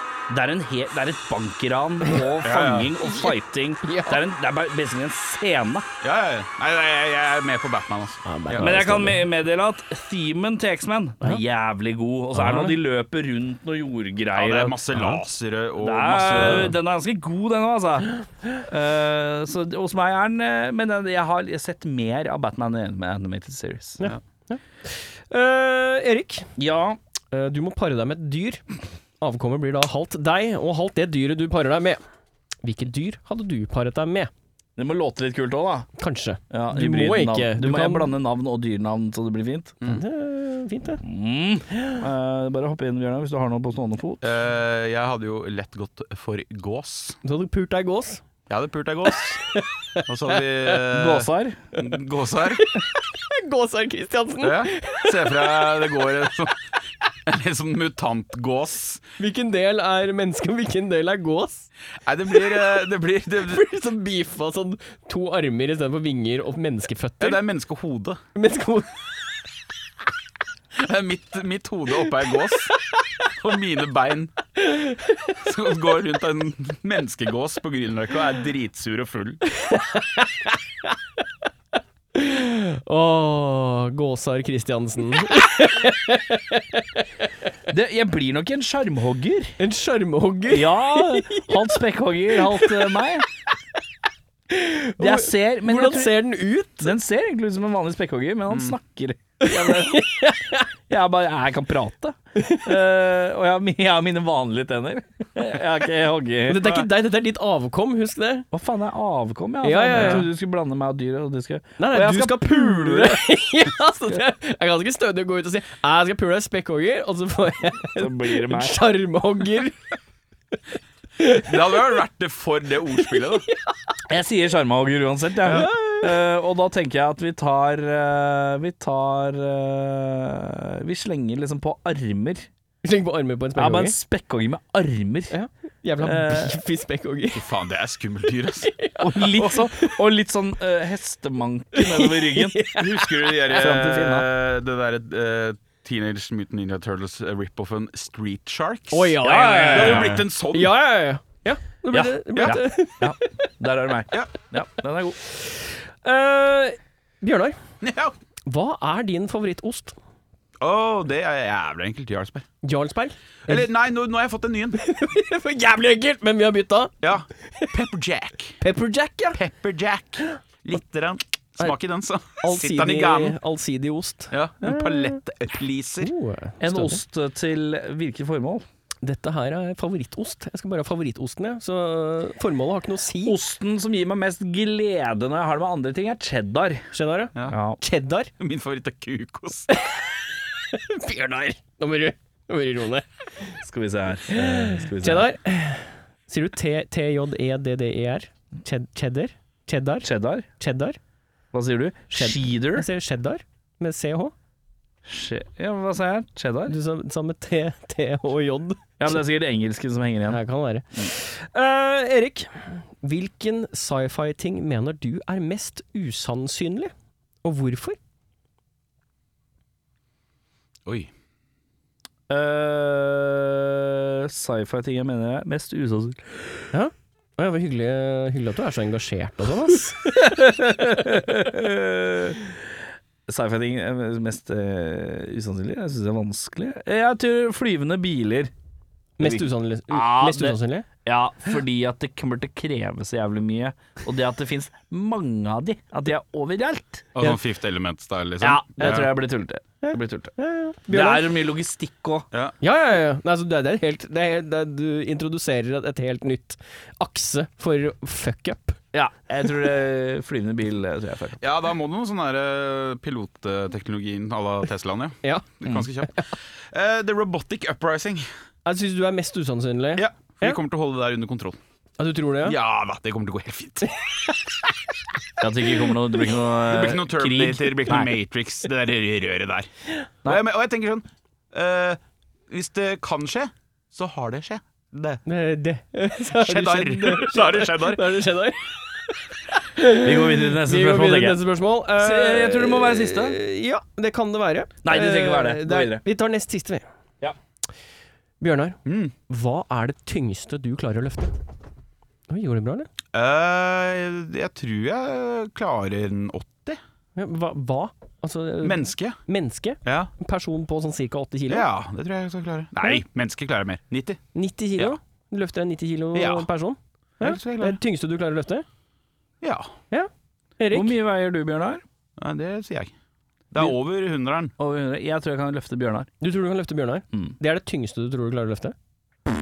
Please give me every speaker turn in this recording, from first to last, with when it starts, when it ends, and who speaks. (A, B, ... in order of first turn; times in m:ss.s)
0:00.3-0:05.9 A
0:02.4-0:03.0 B
0:03.1-0:03.3 C
0:03.8-0:04.2 C
0:06.0-0:08.8 B
0:08.2-0:09.3 C
0:08.6-0:14.8 A
0:12.3-0:12.8 C
0:14.4-0:16.7 B
0:15.0-0:15.2 C
0:15.8-0:24.0 A
0:24.0-0:26.5 C
0:26.6-0:27.0 A
0:27.3-0:28.6 C
0:29.2-0:32.0 C
0:32.6-0:34.3 C
0:34.8-0:35.9 A
0:36.0-0:38.1 C
0:36.5-0:39.8 A
0:39.8-0:41.0 C
0:41.0-0:44.3 A
0:44.2-0:47.2 B
0:47.2-0:48.2 C
0:48.5-0:49.4 B
0:49.1-0:50.4 C
0:50.1-0:52.6 B
0:50.8-0:51.6 A
0:52.6-0:55.7 C
0:54.4-0:56.6 B
0:57.3-0:59.0 B
0:59.2-1:01.7 C
1:02.1-1:03.6 B
1:02.3-1:02.6 C
1:03.5-1:07.4 C
1:07.2-1:08.2 B
1:08.4-1:09.1 C
1:10.8-1:12.7 B
1:13.4-1:14.3 B
1:14.6-1:15.3 C
1:15.4-1:19.4 B
1:19.5-1:20.9 C
1:22.2-1:27.1 C
1:27.7-1:29.6 A
1:29.6-1:31.8 C
1:30.5-1:33.2 A
1:32.4-1:32.8 C
1:34.5-1:37.0 C
1:35.0-1:36.2 A
1:36.8-1:40.2 A
1:39.4-1:40.7 C
1:40.9-1:46.9 A
1:42.4-1:42.7 C
1:46.5-1:48.5 C
1:48.5-1:53.2 A
1:49.6-1:50.3 C
1:50.0-1:50.2 B
1:51.8-1:59.8 C
1:58.0-1:58.8 A
2:01.2-2:01.8 C
2:01.5-2:03.5 B
2:03.0-2:03.6 C
2:04.1-2:12.5 A
2:05.5-2:06.2 C
2:12.8-2:14.0 C
2:13.6-2:15.3 A
2:15.3-2:17.5 C
2:16.0-2:16.6 A
2:17.4-2:18.7 B
2:18.6-2:20.0 C
2:19.0-2:22.7 A
2:21.8-2:23.0 C
2:22.8-2:30.7 B
2:23.5-2:24.3 A
2:28.9-2:33.5 C
2:29.2-2:30.2 A
2:31.9-2:35.2 A
2:35.3-2:37.6 C
2:37.8-2:38.2 B
2:38.5-2:40.0 C
2:40.6-2:42.5 B
2:42.6-2:43.7 C
2:43.5-2:44.8 B
2:44.8-2:47.0 C
2:47.0-2:48.6 B
2:48.6-2:49.4 C
2:49.3-2:53.4 B
2:52.4-2:55.2 C
2:54.3-2:56.1 B
2:56.0-2:57.0 C
2:56.6-2:58.6 A
2:59.0-3:03.4 C
3:03.2-3:06.9 A
3:06.9-3:08.3 C
3:07.5-3:07.8 A
3:08.4-3:09.7 B
3:09.7-3:10.0 C
3:10.7-3:13.6 C
3:13.6-3:15.3 A
3:14.3-3:20.1 C
3:20.0-3:20.5 A
3:20.6-3:21.0 C
3:21.5-3:22.9 A
3:22.1-3:24.3 C
3:25.0-3:26.8 A
3:26.7-3:29.2 C
3:29.0-3:30.4 A
3:30.3-3:36.9 C
3:37.4-3:38.0 C
3:42.3-3:46.4 A
3:46.7-3:50.3 C
3:50.1-3:52.6 A
3:53.3-3:58.5 A
3:59.2-4:00.9 C
3:59.2-4:07.1 A
4:07.2-4:09.1 B
4:08.4-4:10.3 A
4:09.8-4:11.3 C
4:10.9-4:12.3 A
4:12.6-4:18.8 C
4:18.9-4:21.4 A
4:21.4-4:28.3 B
4:25.2-4:26.1 C
4:28.6-4:30.6 C
4:30.0-4:31.6 B
4:32.0-4:32.6 C
4:32.4-4:34.0 B
4:35.4-4:38.1 A
4:36.6-4:39.7 B
4:40.2-4:45.2 B
4:45.3-4:56.8 C
4:46.3-4:48.2 B
4:50.0-4:51.4 A
4:52.0-4:53.4 A
4:54.8-4:56.0 A
4:58.4-5:01.4 C
4:58.9-4:59.1 B
5:02.3-5:02.9 C
5:03.1-5:06.8 B
5:07.2-5:11.7 C
5:08.6-5:09.2 B
5:09.8-5:10.1 B
5:11.5-5:14.2 B
5:14.3-5:18.6 C
5:16.2-5:16.5 B
5:17.2-5:17.8 B
5:19.4-5:19.7 B
5:19.9-5:21.0 C
5:20.7-5:21.8 A
5:22.2-5:22.9 B
5:23.5-5:24.5 B
5:24.6-5:26.1 A
5:26.2-5:28.8 C